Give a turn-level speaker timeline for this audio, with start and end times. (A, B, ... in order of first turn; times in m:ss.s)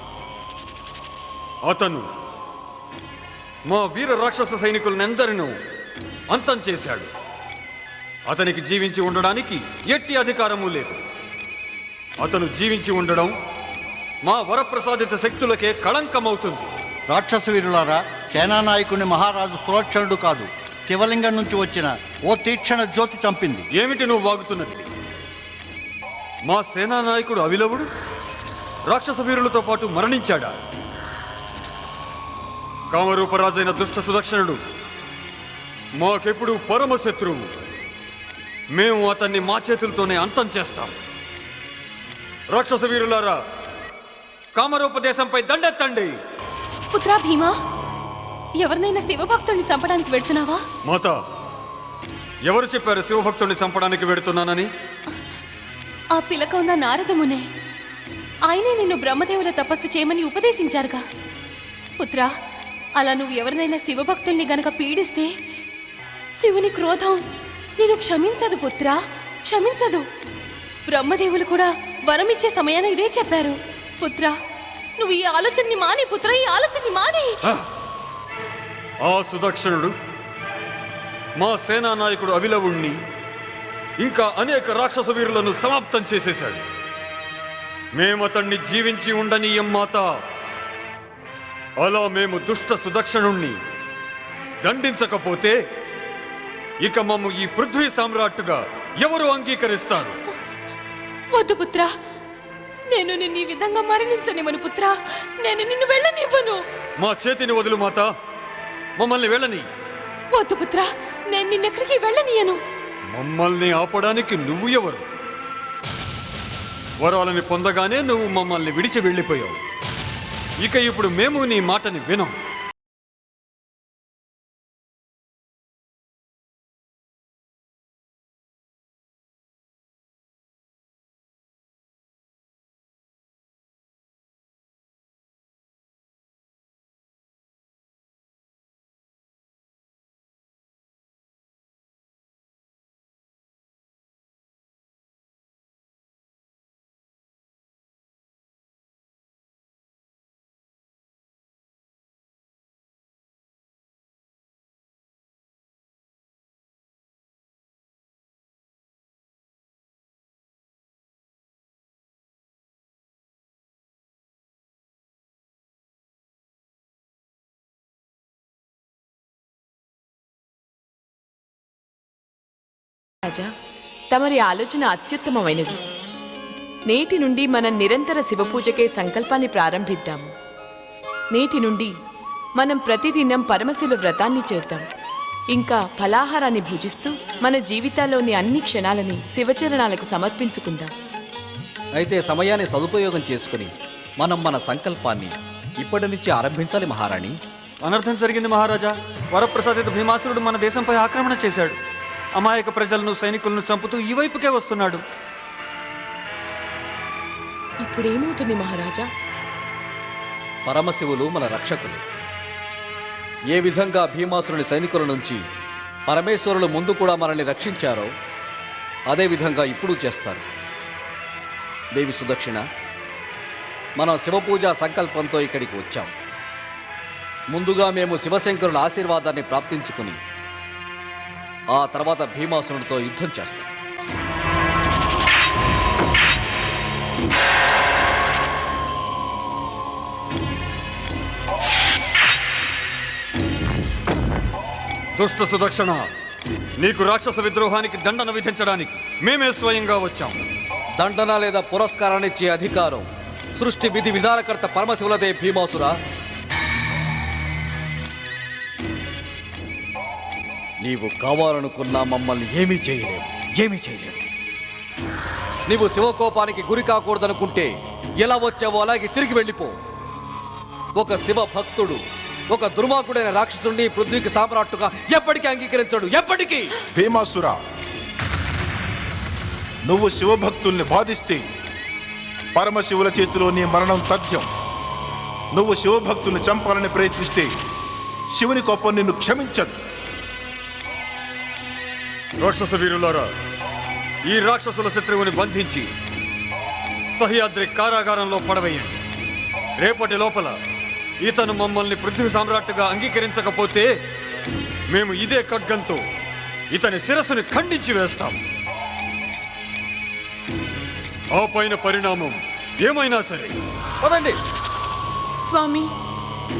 0:01.7-0:02.1 A
0:03.7-0:05.5 A
0:06.3-0:07.1 A
0:08.3-0:11.0 A
0:12.2-0:13.3 A
0:14.2-0:16.7 A
0:17.1-0:23.7 B
0:23.8-0:24.9 A
0:26.5-0:27.9 A
0:28.9-0:30.6 A
0:32.9-0:34.6 A
0:36.0-0:37.5 A
0:38.8-0:40.9 A
0:42.5-0:43.4 A
0:44.5-0:46.1 A
0:46.9-0:47.6 C
0:48.6-0:50.6 C
0:50.8-0:51.2 A
0:52.4-0:54.7 A
0:56.1-0:57.5 C
0:58.4-1:01.0 C
1:02.0-1:02.3 C
1:03.0-1:05.3 C
1:06.4-1:07.2 C
1:07.8-1:10.0 C
1:10.8-1:14.4 C
1:15.0-1:17.4 C
1:19.0-1:19.9 A
1:21.4-1:23.0 A
1:24.0-1:26.6 A
1:28.0-1:30.1 A
1:31.8-1:33.6 A
1:34.6-1:35.6 A
1:36.8-1:40.2 A
1:41.3-1:41.9 C
1:42.9-1:46.6 C
1:47.0-1:48.1 A
1:49.0-1:49.6 A
1:50.3-1:52.6 C
1:53.1-1:55.0 A
1:57.0-1:59.6 A
2:00.6-2:02.3 A
2:54.1-2:55.8 D
2:56.9-3:00.3 D
3:01.3-3:01.9 D
3:02.6-3:04.8 D
3:05.5-3:10.9 D
3:12.0-3:17.4 E
3:17.8-3:21.8 A
3:22.4-3:25.0 A
3:27.8-3:29.1 D
3:30.6-3:32.0 E
3:33.5-3:35.4 E
3:36.1-3:38.1 E
3:39.1-3:40.4 E
3:42.0-3:42.6 E
3:44.0-3:46.1 E
3:47.5-3:50.2 E
3:51.7-3:53.7 E
4:05.2-4:06.0 A
4:06.8-4:10.4 A
4:11.0-4:15.9 E
4:20.8-4:24.3 E
4:25.7-4:29.8 E
4:30.9-4:36.7 E
4:36.9-4:37.6 F
4:39.9-4:41.4 F
4:42.5-4:44.5 F
4:45.5-4:47.5 F
4:48.4-4:49.8 F
4:52.4-4:53.3 A
4:54.3-4:55.9 A
4:57.2-4:58.9 A
4:59.8-5:00.6 A
5:01.2-5:03.9 A
5:04.9-5:06.0 A
5:06.7-5:08.4 A
5:11.3-5:14.4 A
5:15.4-5:15.9 D